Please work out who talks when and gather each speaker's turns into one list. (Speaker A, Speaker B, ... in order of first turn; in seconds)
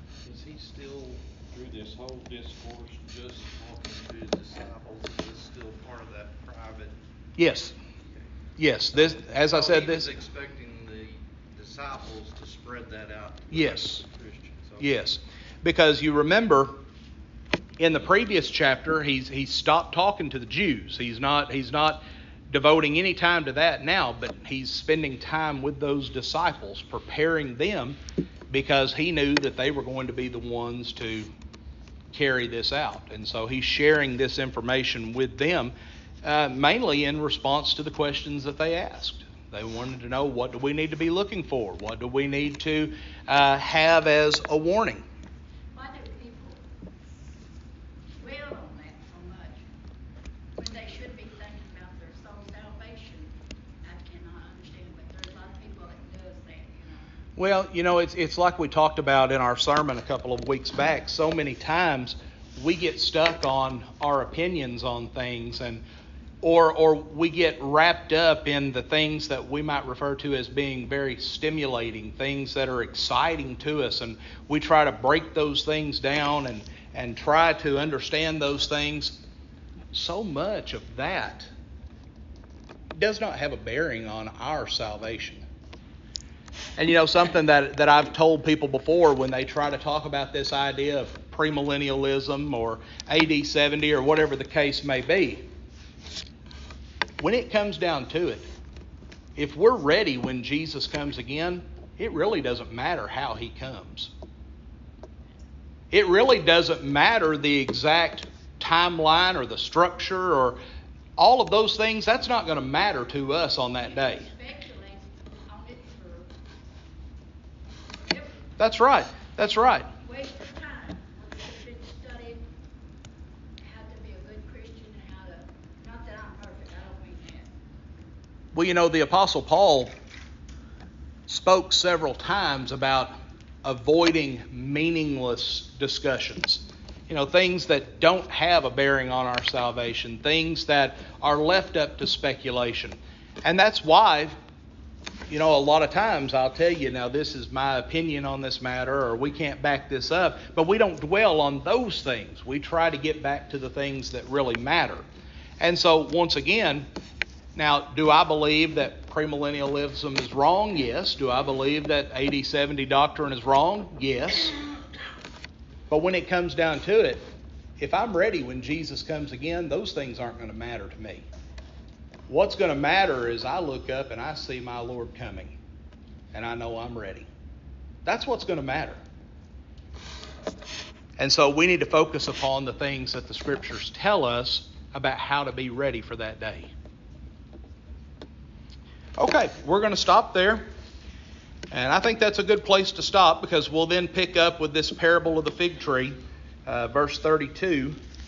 Speaker A: 0.2-6.9, 9.0-14.9
Speaker B: 7.4-7.7, 8.6-10.1, 13.5-14.0, 14.8-16.8, 17.8-28.0, 28.5-31.3, 32.1-45.0, 57.4-65.8, 66.4-79.2, 79.9-81.5, 83.0-85.4, 86.8-95.4, 97.2-98.5, 99.3-104.1, 105.9-110.6, 111.2-114.3, 118.6-119.9, 128.5-129.9, 131.3-133.1, 133.6-144.3, 145.3-155.0, 155.6-156.9, 157.5-164.6, 165.9-167.2, 167.8-171.2, 172.3-175.6, 176.3-177.3, 178.0-179.0, 181.2-186.7, 189.2-190.7, 191.7-196.1, 196.7-198.0
Speaker C: 45.7-46.6, 48.2-49.6, 50.5-53.3, 53.8-57.0, 113.9-116.3, 118.1-118.4, 120.0-122.4, 123.6-127.5